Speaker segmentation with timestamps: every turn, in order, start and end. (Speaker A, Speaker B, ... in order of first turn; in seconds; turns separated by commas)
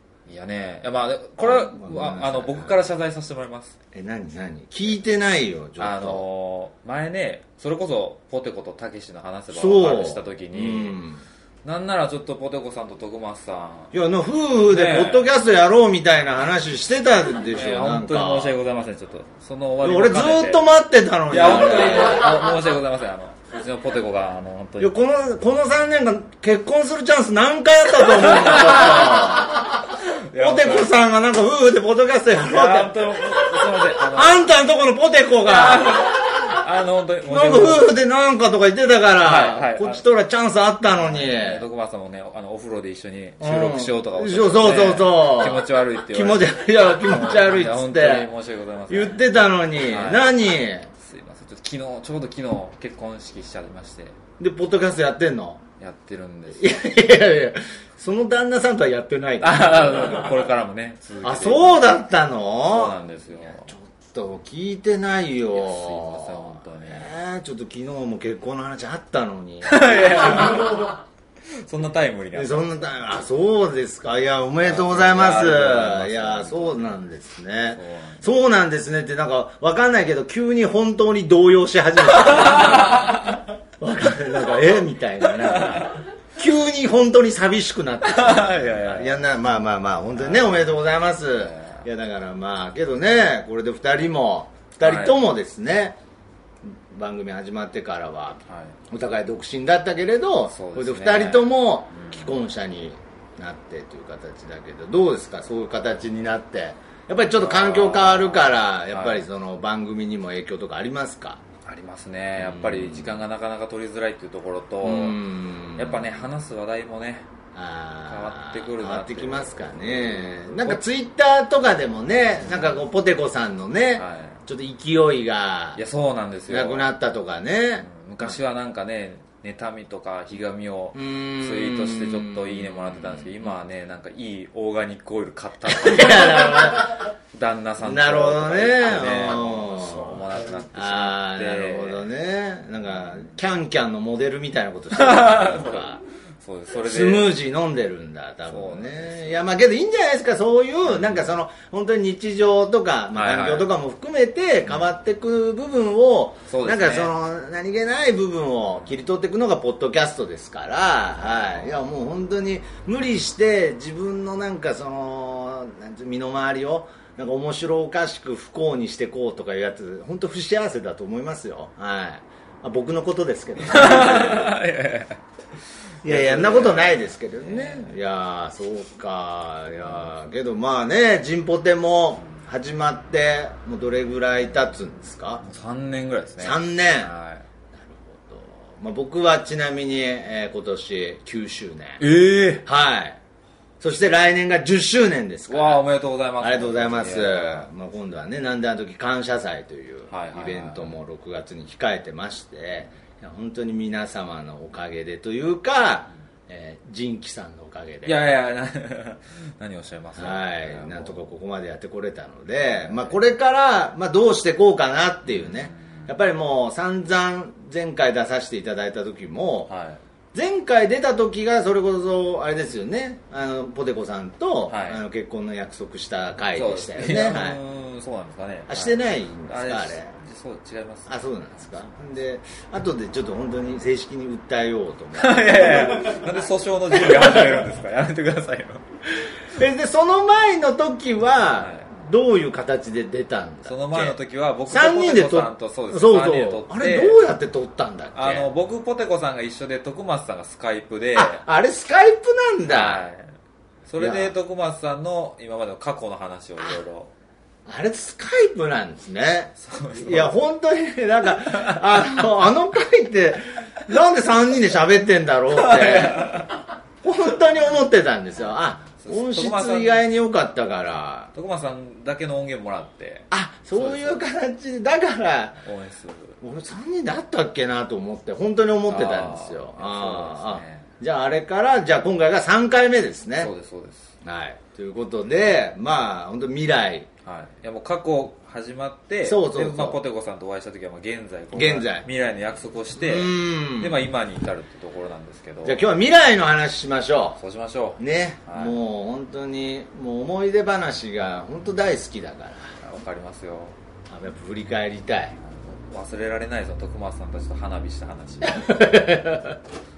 Speaker A: 0.3-3.8, Speaker B: 1.4-2.8, Speaker B: 3.9-6.2, Speaker A: 5.8-11.0, Speaker B: 9.5-11.2, Speaker A: 11.6-13.9, Speaker B: 13.9-18.6, Speaker A: 14.7-15.3, Speaker A: 17.5-20.7, Speaker B: 19.8-22.4, Speaker A: 21.3-24.9, Speaker B: 24.8-29.8, Speaker A: 28.1-29.5, Speaker A: 30.3-31.0, Speaker B: 30.3-33.0, Speaker A: 32.4-34.5, Speaker B: 34.0-36.2, Speaker A: 35.5-37.9, Speaker B: 37.2-41.7, Speaker A: 39.2-40.0, Speaker A: 40.9-49.2, Speaker B: 43.4-48.3, Speaker B: 48.9-50.9, Speaker A: 49.8-50.3, Speaker A: 51.0-54.2, Speaker B: 54.4-55.6, Speaker A: 55.8-56.8, Speaker B: 56.5-60.5, Speaker A: 59.4-62.0, Speaker B: 61.2-70.8, Speaker A: 62.7-63.7, Speaker A: 65.5-67.1, Speaker A: 69.6-71.0, Speaker A: 71.6-72.7, Speaker B: 72.3-96.0, Speaker A: 74.6-76.9, Speaker A: 77.8-78.3, Speaker A: 82.2-83.3, Speaker A: 85.4-85.9, Speaker A: 88.0-89.2, Speaker A: 90.2-90.6, Speaker A: 91.4-91.8, Speaker A: 94.8-95.2, Speaker B: 96.9-111.4, Speaker A: 98.5-98.8, Speaker A: 100.5-102.3, Speaker A: 107.3-109.2, Speaker A: 111.7-115.2, Speaker B: 112.3-113.2, Speaker B: 114.8-116.2, Speaker A: 115.8-117.3, Speaker B: 117.5-125.8, Speaker A: 118.1-119.6, Speaker A: 120.4-120.8, Speaker A: 124.0-124.4, Speaker A: 125.8-126.9, Speaker B: 126.5-128.4, Speaker A: 127.8-142.0, Speaker B: 130.9-133.5, Speaker B: 135.7-137.0, Speaker B: 137.8-146.0, Speaker A: 144.9-147.4, Speaker B: 146.8-174.6, Speaker A: 148.4-149.4, Speaker A: 150.9-151.3, Speaker A: 153.1-153.7, Speaker A: 156.5-157.1, Speaker A: 173.6-175.2, Speaker A: 176.0-177.9, Speaker B: 176.0-185.4, Speaker A: 179.8-180.1, Speaker A: 185.4-187.4, Speaker B: 186.4-187.1, Speaker B: 187.7-192.0, Speaker A: 192.0-192.6, Speaker B: 192.6-193.2, Speaker B: 193.8-195.8, Speaker A: 195.5-197.7, Speaker B: 196.4-208.3, Speaker A: 200.1-200.9, Speaker A: 208.0-211.2, Speaker B: 210.2-219.7, Speaker A: 212.8-213.2, Speaker A: 215.2-216.1, Speaker A: 219.7-220.0, Speaker B: 220.3-227.6, Speaker A: 224.7-225.0, Speaker A: 226.5-231.1, Speaker B: 228.7-230.1, Speaker B: 231.1-236.2, Speaker A: 235.2-238.8, Speaker B: 236.9-237.7, Speaker B: 239.5-248.5, Speaker A: 241.6-241.9, Speaker A: 243.6-247.2, Speaker A: 248.1-251.4, Speaker B: 251.1-253.0, Speaker A: 252.7-253.3, Speaker A: 253.9-257.1, Speaker B: 254.0-254.3, Speaker B: 257.7-266.5, Speaker A: 259.6-260.4, Speaker A: 265.6-266.5, Speaker B: 267.0-271.3, Speaker A: 269.0-270.0, Speaker A: 271.3-274.2, Speaker B: 273.3-275.6, Speaker A: 275.6-276.4, Speaker B: 276.4-283.5, Speaker A: 278.9-280.9, Speaker A: 283.4-284.1, Speaker B: 284.2-287.1, Speaker A: 287.2-295.9, Speaker B: 289.2-290.0, Speaker B: 291.5-292.1, Speaker B: 292.9-294.0, Speaker B: 295.6-297.4, Speaker A: 297.4-298.8, Speaker B: 298.0-302.7, Speaker A: 302.8-303.8, Speaker B: 304.1-305.4, Speaker A: 305.4-308.8, Speaker B: 308.4-309.6